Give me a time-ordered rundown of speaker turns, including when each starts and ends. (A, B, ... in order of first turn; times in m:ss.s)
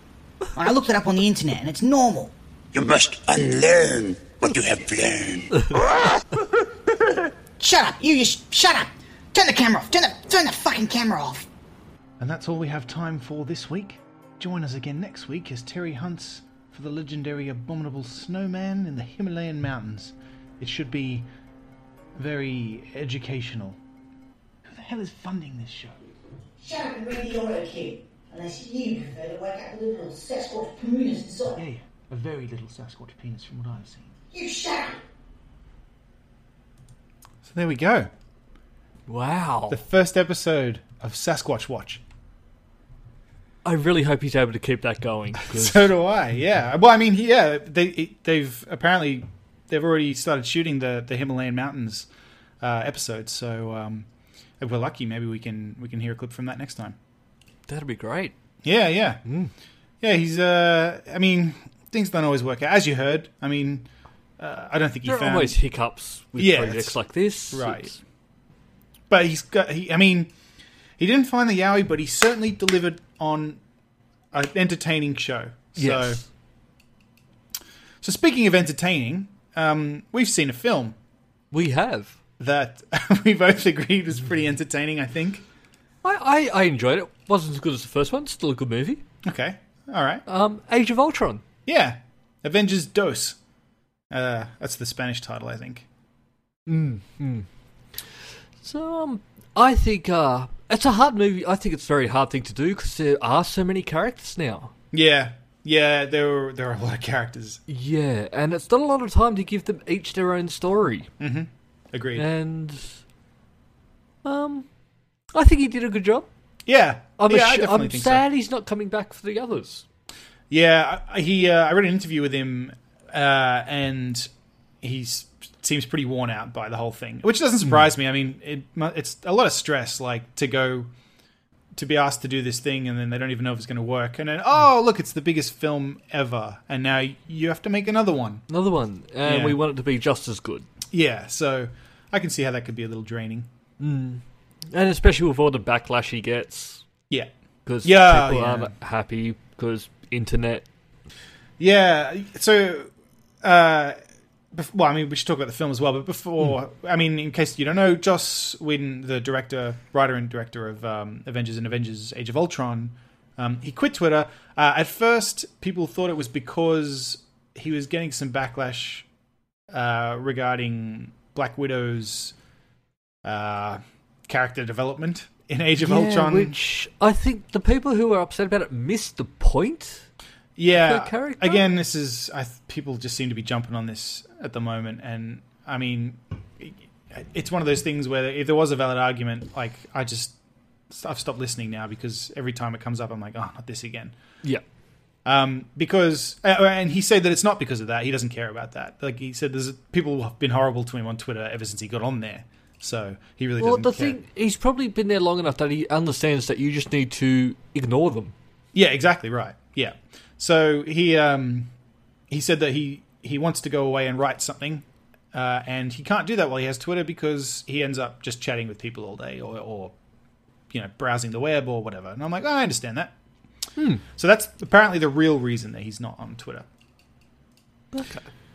0:00.5-0:02.3 A
0:02.7-0:06.4 B
0:07.6-0:11.5 A
0:12.2-0:21.3 C
0:22.2-0:23.8 C
0:24.6-0:26.0 C
0:26.6-0:31.6 A
0:31.6-0:34.1 C
0:34.3-0:35.0 A
0:37.4-0:38.1 C
0:39.1-0:39.8 D
0:39.7-0:42.0 C
0:43.6-0:45.9 D
0:45.4-0:52.1 C
0:52.6-0:54.1 C
0:54.6-0:57.0 C
0:57.7-0:58.3 D
0:58.6-0:59.2 C
0:59.2-0:59.5 D
1:00.0-1:03.9 C
1:04.4-1:05.6 C
1:05.0-1:08.0 D
1:06.4-1:07.0 C
1:07.5-1:08.0 C
1:09.1-1:10.3 C
1:11.0-1:13.6 C
1:14.3-1:16.2 C
1:15.8-1:16.2 D
1:18.0-1:21.0 C
1:21.5-1:22.2 D
1:22.4-1:25.4 C
1:26.0-1:29.0 D
1:29.2-1:30.2 C
1:30.3-1:31.4 D
1:31.6-1:33.4 C
1:34.1-1:35.8 C
1:36.7-1:37.5 D
1:38.6-1:44.7 D
1:44.9-1:47.6 C
1:47.7-1:51.1 D
1:51.2-1:52.2 C
1:52.2-1:53.0 D
1:54.2-1:54.6 D
1:55.3-1:56.3 D
1:56.7-1:58.2 C
1:57.2-1:59.8 D
2:00.5-2:04.3 C
2:04.8-2:10.9 C
2:11.7-2:18.4 C
2:18.5-2:20.7 D
2:19.2-2:19.6 C
2:20.9-2:23.5 C
2:23.8-2:26.8 D
2:27.6-2:30.6 D
2:27.8-2:28.7 C
2:31.6-2:32.9 C
2:33.4-2:34.0 C
2:34.5-2:49.0 C
2:49.7-2:52.3 C
2:53.2-2:56.6 C
2:55.8-3:00.1 D
3:00.6-3:10.3 C
3:00.7-3:01.6 D
3:10.9-3:14.1 C
3:15.2-3:24.2 C
3:23.6-3:28.3 D
3:28.7-3:31.7 C
3:32.3-3:39.9 C
3:40.7-3:43.1 C
3:43.8-3:44.0 D
3:44.1-3:46.6 C
3:47.9-3:48.3 D